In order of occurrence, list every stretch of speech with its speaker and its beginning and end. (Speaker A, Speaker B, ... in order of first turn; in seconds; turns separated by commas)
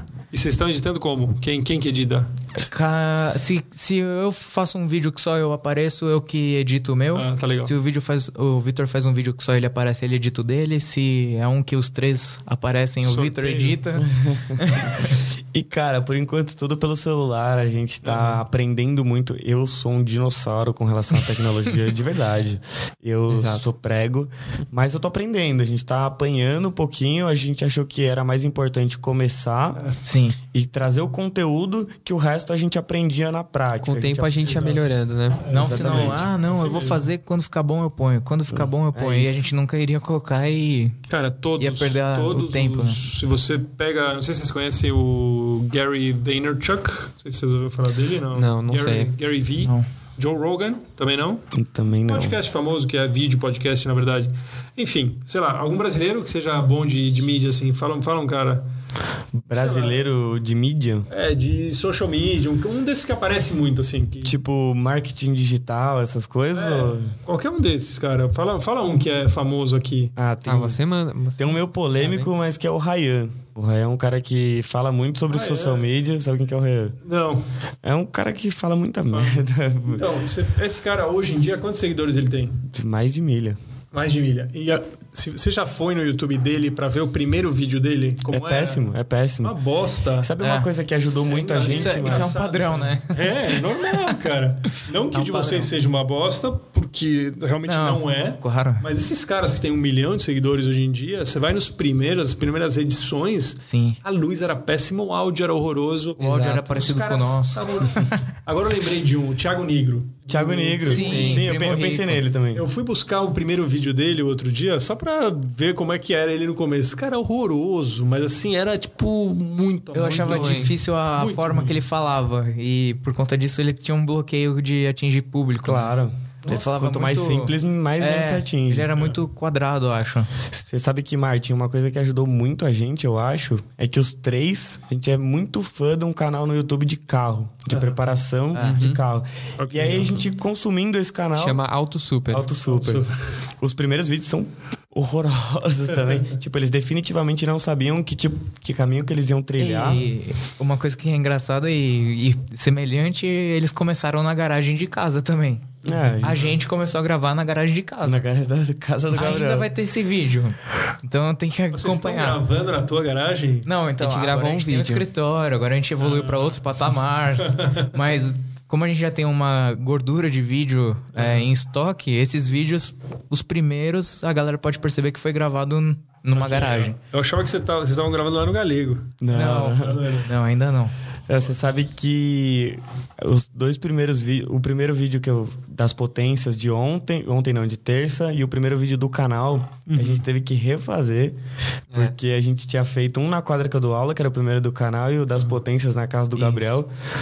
Speaker A: 0.3-2.3, Speaker B: 2.5-15.1, Speaker A: 7.1-7.7, Speaker A: 13.0-13.8, Speaker C: 14.0-29.8, Speaker A: 18.0-18.4, Speaker D: 23.3-23.6, Speaker B: 30.0-30.4, Speaker C: 30.5-34.5, Speaker D: 33.8-35.4, Speaker A: 34.4-34.8, Speaker A: 35.4-37.0, Speaker B: 35.5-41.0, Speaker C: 35.5-36.3, Speaker C: 38.5-39.5, Speaker A: 41.1-51.4, Speaker B: 41.6-43.0, Speaker D: 48.3-49.1, Speaker C: 51.5-52.4, Speaker A: 52.0-58.6, Speaker C: 59.4-61.1, Speaker A: 59.5-60.1, Speaker A: 61.1-64.3, Speaker C: 64.2-67.1, Speaker A: 66.5-70.1, Speaker C: 70.2-70.8, Speaker D: 70.5-72.3, Speaker C: 71.4-77.0, Speaker A: 75.3-75.8, Speaker A: 77.0-77.4, Speaker C: 77.8-80.1, Speaker A: 79.1-82.6, Speaker C: 82.7-83.6, Speaker A: 83.9-88.9, Speaker C: 88.3-89.5, Speaker A: 89.4-90.3, Speaker C: 90.2-92.4, Speaker B: 90.4-90.7, Speaker A: 91.2-111.3, Speaker B: 91.6-94.1, Speaker B: 95.1-95.7, Speaker B: 97.7-98.9, Speaker B: 103.6-104.0, Speaker B: 106.2-108.2, Speaker C: 110.3-112.6, Speaker B: 110.8-112.2, Speaker D: 111.0-111.5, Speaker A: 112.5-121.8, Speaker B: 119.9-125.9, Speaker D: 120.2-120.7, Speaker C: 125.6-128.9, Speaker B: 126.5-130.3, Speaker C: 130.5-141.6, Speaker A: 137.7-137.9, Speaker B: 138.5-138.9, Speaker D: 138.6-139.0, Speaker A: 139.6-140.2, Speaker D: 141.3-142.5, Speaker C: 142.3-143.0, Speaker A: 142.7-143.1, Speaker C: 143.6-150.1, Speaker B: 149.6-158.2, Speaker C: 155.8-156.6, Speaker C: 158.0-159.7, Speaker B: 159.1-162.4, Speaker A: 161.7-163.7, Speaker B: 163.7-176.9, Speaker D: 164.0-165.1, Speaker A: 166.0-166.6, Speaker A: 167.4-167.9, Speaker A: 171.1-171.5, Speaker A: 176.3-179.1, Speaker C: 179.2-180.1, Speaker B: 179.3-180.9, Speaker A: 179.8-180.3, Speaker C: 181.3-191.4, Speaker A: 189.8-190.2, Speaker C: 191.9-196.9, Speaker B: 196.3-196.7